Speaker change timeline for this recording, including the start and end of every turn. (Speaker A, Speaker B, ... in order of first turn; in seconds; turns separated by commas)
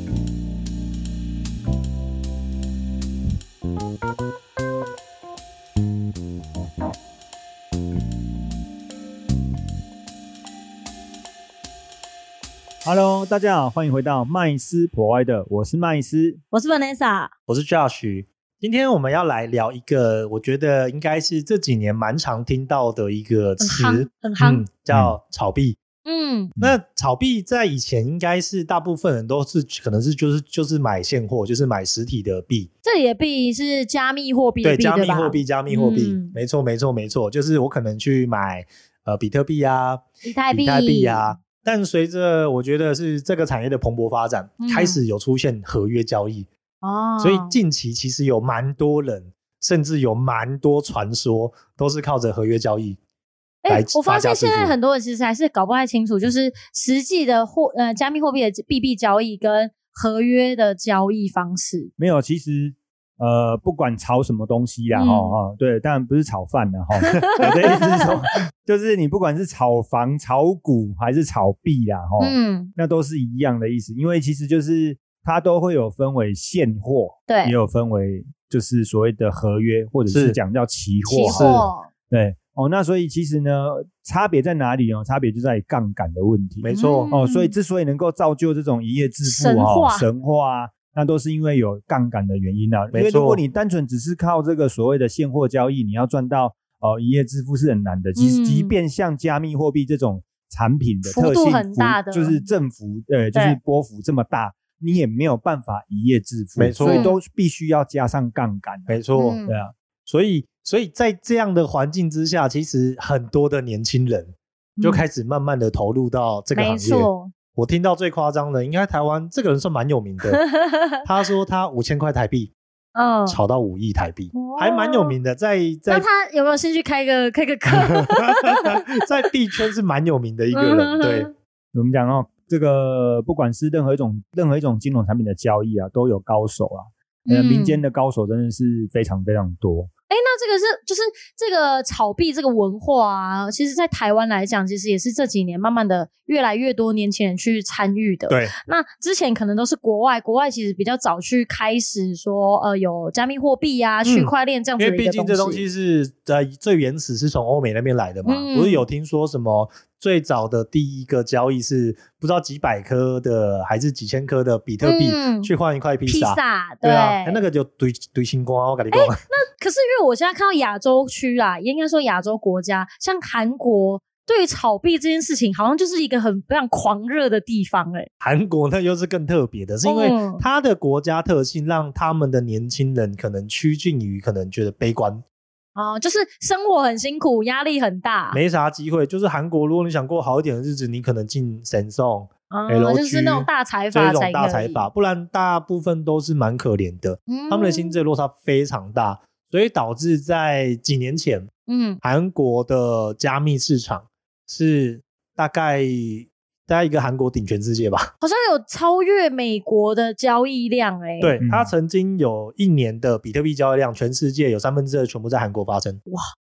Speaker A: 12.8-16.4, Speaker B: 16.5-17.3, Speaker C: 17.5-25.8, Speaker B: 23.6-24.6, Speaker A: 24.9-25.1, Speaker B: 26.1-26.6, Speaker C: 26.6-32.7, Speaker B: 32.8-36.4, Speaker C: 34.6-46.5, Speaker B: 40.2-41.3, Speaker B: 44.6-45.0, Speaker B: 46.8-47.5, Speaker C: 47.2-53.0, Speaker B: 53.6-61.9, Speaker C: 53.7-54.7, Speaker A: 62.0-109.7, Speaker B: 64.9-65.4, Speaker B: 67.1-67.5, Speaker B: 72.2-72.7, Speaker B: 77.3-77.5, Speaker C: 80.1-80.4, Speaker B: 81.1-81.9, Speaker C: 81.3-81.7, Speaker C: 86.6-87.1, Speaker B: 86.7-87.5, Speaker B: 89.2-90.1, Speaker C: 92.9-93.4, Speaker B: 98.2-98.8, Speaker B: 101.0-102.4, Speaker B: 103.3-103.6, Speaker C: 106.6-107.1, Speaker B: 106.8-107.2, Speaker C: 108.9-109.4, Speaker B: 109.1-109.6, Speaker C: 110.0-120.4, Speaker B: 114.8-115.0, Speaker B: 116.5-117.3, Speaker B: 120.3-121.0, Speaker C: 121.0-122.5, Speaker B: 122.9-123.4, Speaker C: 123.3-126.1, Speaker B: 124.3-125.2, Speaker B: 125.9-128.8, Speaker C: 128.5-131.3, Speaker B: 130.5-131.3, Speaker A: 131.7-139.9, Speaker B: 137.3-137.8, Speaker B: 140.1-155.6, Speaker C: 154.0-169.2, Speaker B: 158.2-158.8, Speaker B: 164.8-165.5, Speaker B: 166.0-167.4, Speaker B: 168.9-178.1, Speaker C: 178.2-185.2, Speaker B: 179.8-180.4, Speaker B: 185.8-188.4, Speaker C: 188.3-201.5, Speaker B: 192.5-194.9, Speaker B: 197.3-198.0, Speaker B: 201.7-202.0, Speaker C: 202.0-208.1, Speaker B: 208.2-211.3, Speaker C: 211.2-216.0, Speaker A: 211.4-211.7